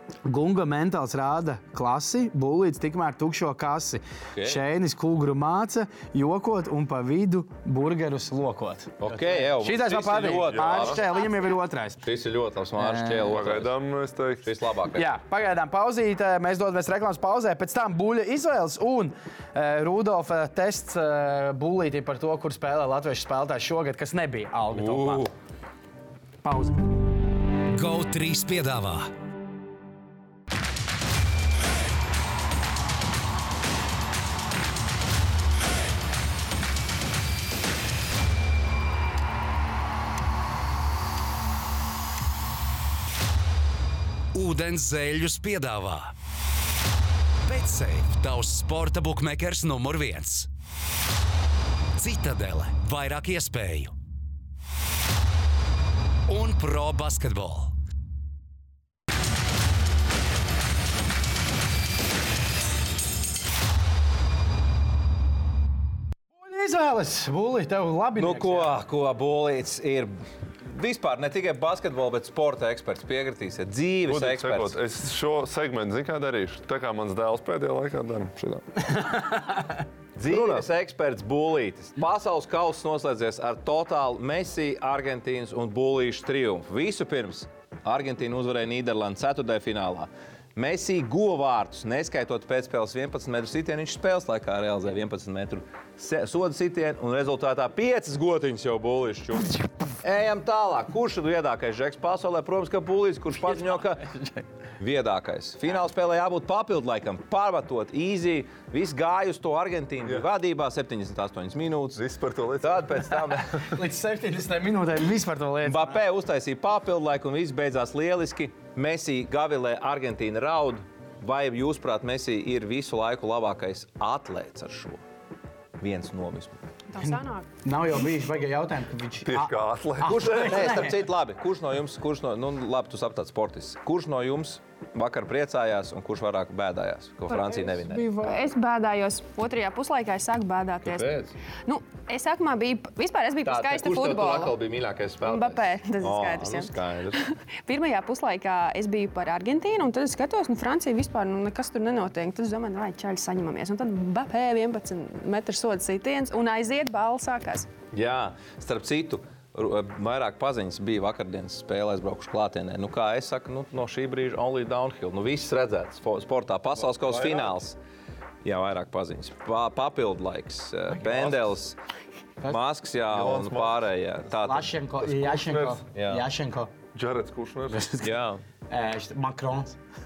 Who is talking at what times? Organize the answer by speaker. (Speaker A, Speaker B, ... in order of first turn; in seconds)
Speaker A: 0.2-12.0, 12.8-13.4, 15.0-25.3, 26.4-26.8, 66.4-68.7, 78.9-79.8, 103.5-104.4, 113.6-116.0, 127.6-131.0, 137.7-138.4, 174.4-176.7, 177.7-178.1, 178.7-179.8
Speaker B: 4.3-4.6, 9.0-11.1, 12.0-13.8, 14.4-15.1, 24.7-25.3, 68.2-74.8, 80.2-104.1, 104.8-112.0, 112.6-113.8, 115.6-125.0, 125.8-126.6, 130.0-138.3, 140.8-141.3, 143.4-147.3, 157.9-167.8, 168.4-171.8, 172.4-174.7, 175.9-176.3, 178.0-178.4
Speaker C: 10.6-10.9, 13.3-14.5, 74.1-78.4, 112.0-113.2, 129.2-130.7, 166.9-167.6, 171.0-171.5, 173.1-173.9, 175.0-175.8, 176.9-177.9
Speaker D: 27.7-29.1, 44.3-46.1, 47.4-50.5, 52.0-53.9, 56.3-57.7
Speaker E: 126.9-127.5, 137.3-137.6, 138.1-144.6, 145.2-157.7